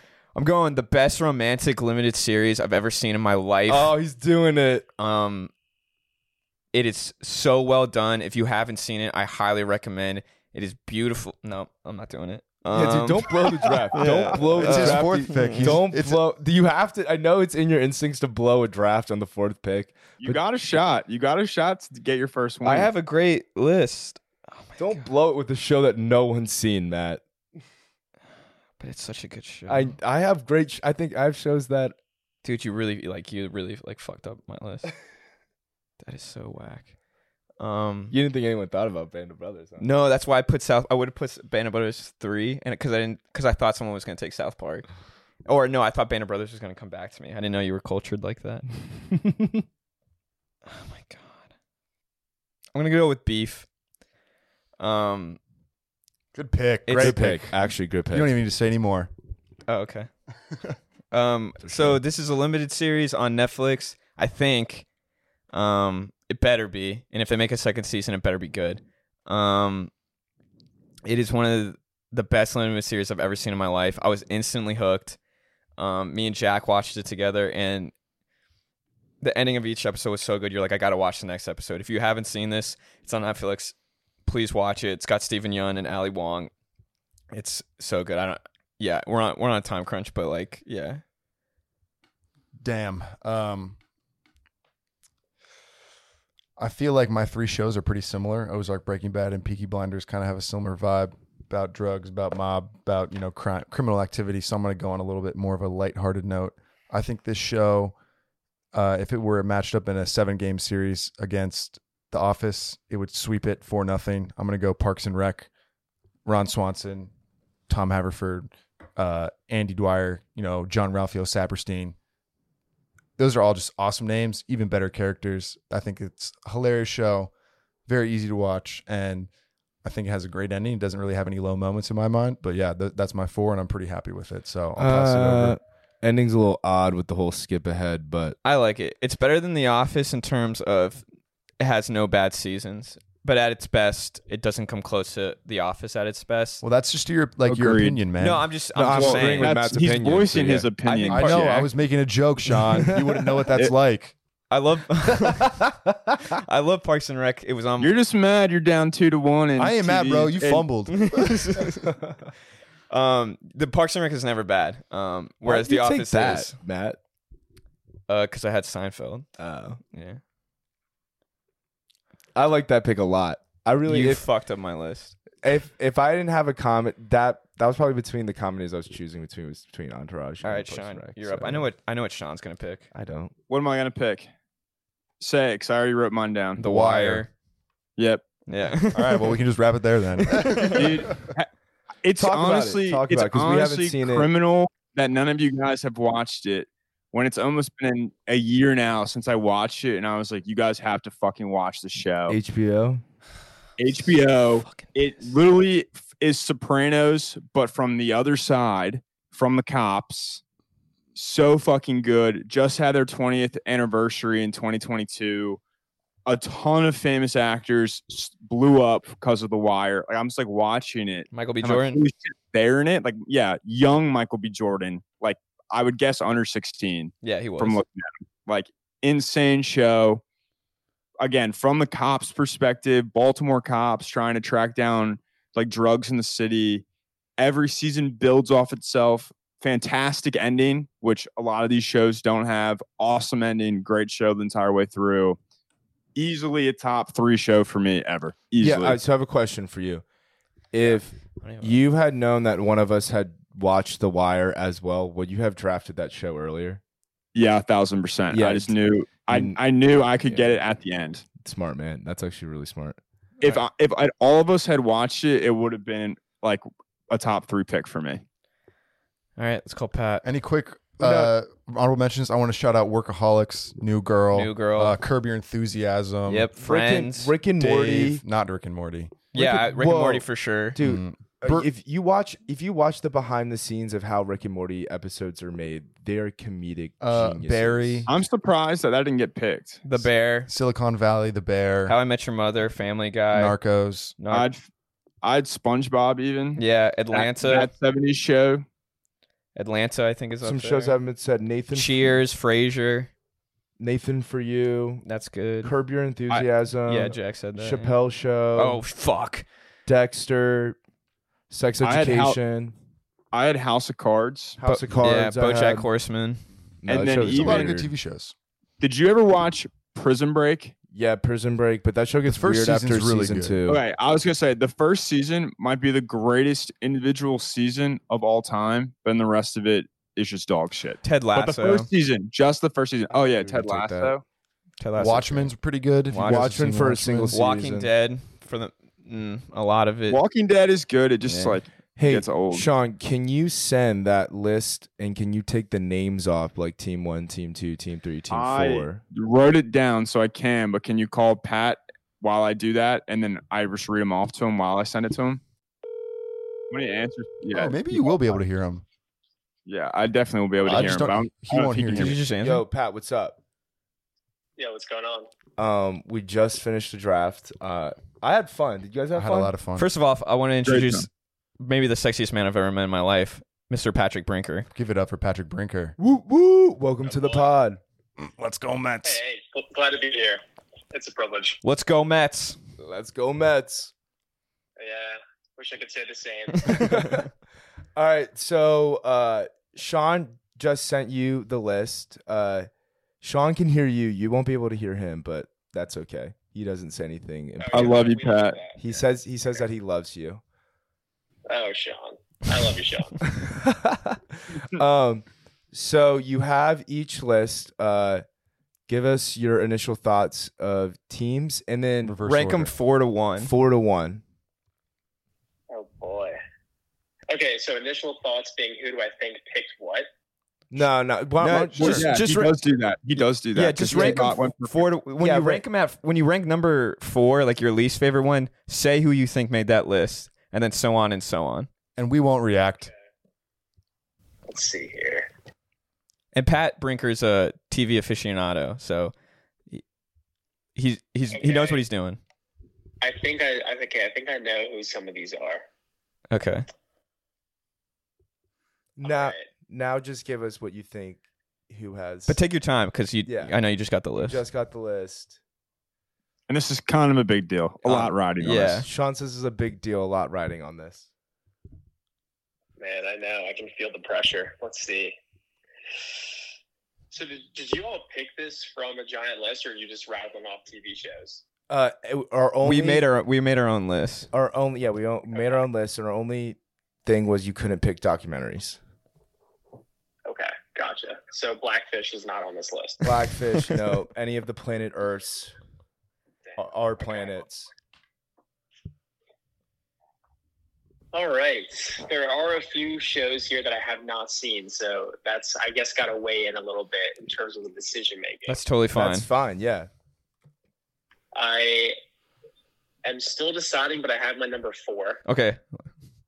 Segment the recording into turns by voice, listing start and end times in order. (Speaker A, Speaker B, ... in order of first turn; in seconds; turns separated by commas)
Speaker A: 0.3-3.9, Speaker B: 3.7-4.9, Speaker A: 5.0-5.5, Speaker A: 6.7-13.3, Speaker B: 12.7-20.4, Speaker A: 13.9-15.8, Speaker C: 14.3-16.2, Speaker D: 20.2-22.9, Speaker A: 22.6-25.1, Speaker B: 24.8-27.2, Speaker A: 28.8-29.9, Speaker B: 29.7-31.9, Speaker A: 32.4-34.9, Speaker A: 36.0-36.9, Speaker A: 37.6-38.1, Speaker B: 38.1-39.9, Speaker A: 39.8-44.9, Speaker A: 45.4-48.6, Speaker A: 50.6-51.4, Speaker A: 52.7-53.7, Speaker A: 54.8-55.4, Speaker C: 56.3-59.1, Speaker A: 56.9-57.4, Speaker B: 57.0-58.3, Speaker A: 59.7-60.1, Speaker A: 61.1-64.8, Speaker B: 61.6-62.0, Speaker A: 65.5-69.9, Speaker A: 71.0-75.2, Speaker A: 75.8-77.9, Speaker A: 79.2-86.5, Speaker A: 87.3-91.0, Speaker C: 92.6-93.8, Speaker C: 96.6-107.9, Speaker C: 108.7-115.5, Speaker C: 116.2-117.1, Speaker C: 117.7-122.0, Speaker C: 123.2-127.3, Speaker C: 127.8-129.3, Speaker C: 129.8-135.6, Speaker B: 134.8-138.4, Speaker A: 138.4-141.0, Speaker A: 141.6-146.6, Speaker C: 146.6-148.5, Speaker D: 147.5-148.0, Speaker A: 148.2-149.6, Speaker B: 148.7-150.7, Speaker D: 148.9-151.5, Speaker A: 150.8-151.7, Speaker C: 151.1-154.1, Speaker B: 152.8-153.4, Speaker A: 154.5-155.7, Speaker A: 156.2-157.9, Speaker D: 157.8-160.7, Speaker C: 159.6-161.7, Speaker A: 160.9-161.9, Speaker B: 161.8-162.1, Speaker A: 162.9-166.6, Speaker B: 165.4-167.0, Speaker A: 168.1-169.3, Speaker B: 169.4-169.8, Speaker A: 169.9-170.2, Speaker B: 172.3-174.2, Speaker A: 173.8-175.1, Speaker B: 175.4-181.7, Speaker A: 180.4-182.9, Speaker B: 182.9-183.3, Speaker D: 183.5-184.3, Speaker D: 185.2-186.6, Speaker A: 186.6-187.3, Speaker C: 186.6-187.2, Speaker D: 188.0-188.2, Speaker A: 188.5-189.4, Speaker C: 188.9-191.1, Speaker A: 190.3-191.0, Speaker D: 190.7-191.5, Speaker D: 192.0-202.4, Speaker B: 192.2-194.3, Speaker B: 202.3-203.0, Speaker D: 203.8-210.4, Speaker A: 204.5-205.3, Speaker D: 211.1-215.6, Speaker D: 216.2-230.2, Speaker A: 221.3-222.0, Speaker A: 227.2-227.8, Speaker D: 231.2-236.8, Speaker D: 237.4-245.4, Speaker D: 246.1-249.0, Speaker B: 248.6-250.0, Speaker B: 250.7-256.8, Speaker A: 250.8-251.8, Speaker D: 257.3-261.2, Speaker B: 258.3-259.6, Speaker B: 260.2-260.6, Speaker B: 261.4-263.0, Speaker D: 263.4-268.2, Speaker A: 269.4-270.2, Speaker C: 270.2-276.5, Speaker B: 271.0-271.3, Speaker A: 274.3-275.0, Speaker A: 276.3-277.7, Speaker B: 276.6-278.2, Speaker C: 277.6-279.2, Speaker A: 279.3-280.8, Speaker B: 279.3-288.1, Speaker C: 280.8-281.7, Speaker C: 287.0-288.1, Speaker D: 288.1-289.8, Speaker A: 289.8-290.5, Speaker C: 290.0-291.9, Speaker A: 291.9-293.6, Speaker C: 293.3-294.1, Speaker A: 294.2-294.5, Speaker D: 294.3-294.6, Speaker D: 295.2-296.6, Speaker A: 296.6-297.7, Speaker D: 297.1-298.6, Speaker A: 299.5-301.0, Speaker B: 300.4-302.2, Speaker A: 301.7-303.1, Speaker B: 303.8-305.1, Speaker A: 305.0-305.7, Speaker B: 305.6-308.8, Speaker A: 306.9-308.0, Speaker A: 308.5-309.4, Speaker B: 309.9-310.8, Speaker B: 311.5-312.7, Speaker D: 311.8-312.4, Speaker D: 313.3-314.9, Speaker B: 314.6-315.9, Speaker A: 315.0-316.4, Speaker B: 316.8-317.9, Speaker D: 316.9-317.8, Speaker C: 317.2-318.3, Speaker D: 318.8-320.7, Speaker B: 320.9-323.8, Speaker C: 322.2-323.6, Speaker D: 323.7-334.2, Speaker A: 331.0-331.9, Speaker B: 333.1-334.1, Speaker A: 334.8-335.5, Speaker C: 335.0-337.4, Speaker A: 336.1-336.6, Speaker B: 336.2-337.9, Speaker A: 337.3-340.2, Speaker D: 340.1-342.7, Speaker A: 341.2-341.6, Speaker B: 341.9-349.0, Speaker D: 348.3-355.4, Speaker D: 356.7-357.9, Speaker C: 357.5-358.8, Speaker D: 359.6-362.2, Speaker C: 360.6-362.2, Speaker A: 361.9-362.6, Speaker B: 362.4-363.4, Speaker E: 364.6-365.3, Speaker B: 365.6-369.5, Speaker C: 369.1-369.9, Speaker A: 369.8-371.1, Speaker D: 370.6-371.0, Speaker A: 371.6-374.7, Speaker C: 374.7-375.9, Speaker B: 376.0-377.8, Speaker E: 377.0-377.5, Speaker C: 378.2-379.2, Speaker E: 379.0-380.4, Speaker E: 380.9-381.6, Speaker A: 381.6-382.6, Speaker B: 382.8-383.9, Speaker E: 384.8-386.8, Speaker A: 386.6-387.2, Speaker B: 386.7-387.3, Speaker B: 387.9-392.7, Speaker B: 393.2-400.4, Speaker E: 397.6-398.9, Speaker D: 397.7-398.6, Speaker E: 401.5-403.2, Speaker B: 403.3-408.2, Speaker B: 408.9-412.2, Speaker C: 412.0-412.7, Speaker A: 412.2-413.5, Speaker B: 413.4-414.2, Speaker E: 415.7-416.4, Speaker E: 417.3-420.1, Speaker B: 420.7-422.2, Speaker A: 421.4-422.5, Speaker D: 421.8-424.8, Speaker A: 423.2-431.7, Speaker B: 423.8-424.3, Speaker B: 425.2-425.6, Speaker C: 432.0-432.9, Speaker E: 434.5-435.3, Speaker A: 436.3-439.1, Speaker A: 440.8-442.2, Speaker E: 441.3-441.8, Speaker E: 443.0-445.6, Speaker A: 446.3-446.6, Speaker B: 449.0-452.4, Speaker E: 449.0-449.5, Speaker A: 452.3-454.4, Speaker B: 453.2-453.5, Speaker B: 454.2-455.4, Speaker D: 456.5-458.8, Speaker A: 457.8-458.9, Speaker B: 458.8-461.1, Speaker E: 462.8-465.2, Speaker E: 467.1-471.4, Speaker B: 471.7-473.1, Speaker A: 472.6-474.3, Speaker B: 474.3-478.8, Speaker E: 475.3-475.6, Speaker E: 480.2-483.2, Speaker B: 483.0-485.5, Speaker E: 486.5-487.4, Speaker B: 486.6-487.7, Speaker E: 491.1-498.6, Speaker A: 498.5-499.3, Speaker B: 498.9-499.9, Speaker E: 501.3-501.9, Speaker E: 503.0-505.2, Speaker A: 505.2-505.6